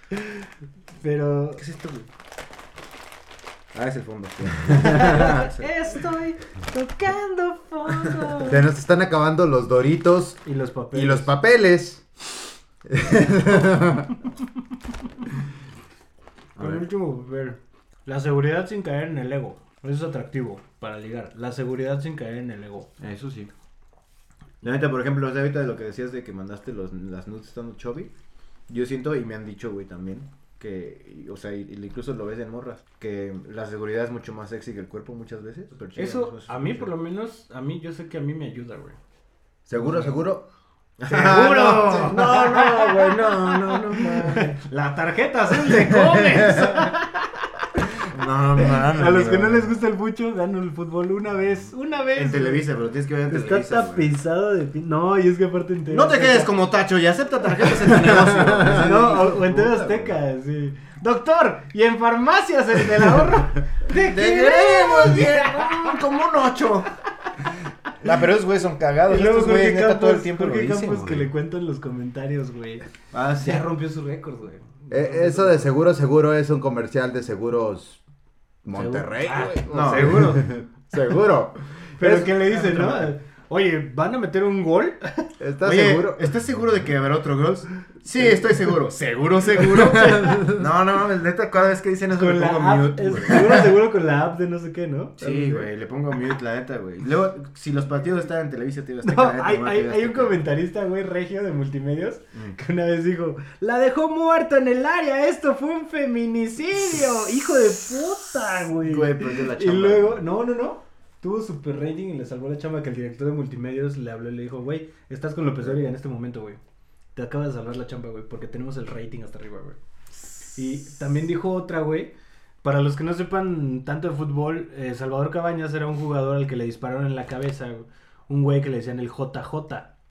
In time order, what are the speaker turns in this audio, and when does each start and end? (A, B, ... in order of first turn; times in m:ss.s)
0:00.2-0:01.6 A
0:01.6-0:02.1 B
0:03.7-0:05.7 B
0:04.7-0:08.6 A
0:08.5-0:10.4 C
0:10.4-0:11.3 A
0:10.9-0:12.1 C
0:12.8-0:14.1 C
0:16.6-0:16.8 B
0:16.6-0:22.9 A
0:23.0-0:23.5 B
0:24.6-0:28.1 B
0:28.7-0:36.9 B
0:36.0-0:39.0 A
0:39.6-0:40.5 C
0:39.7-0:40.2 A
0:41.0-0:44.6 B
0:41.1-0:47.3 A
0:45.9-0:46.7 C
0:48.1-0:49.7 B
0:48.6-0:52.6 A
0:52.1-0:54.1 B
0:53.3-0:56.5 A
0:55.9-1:00.2 B
0:58.2-0:58.7 C
0:58.6-1:06.0 A
1:03.9-1:06.9 B
1:08.0-1:11.3 B
1:09.1-1:12.8 A
1:13.1-1:13.6 B
1:13.4-1:15.7 A
1:14.9-1:18.0 C
1:18.6-1:22.3 C
1:18.7-1:20.5 A
1:19.7-1:20.3 B
1:22.0-1:25.2 A
1:22.4-1:23.1 B
1:25.4-1:26.3 C
1:25.6-1:33.7 B
1:29.6-1:30.7 C
1:30.0-1:30.4 A
1:32.1-1:35.7 A
1:35.2-1:40.4 B
1:39.0-1:56.6 A
1:48.6-1:50.2 B
1:57.1-1:59.8 A
2:00.5-2:09.9 A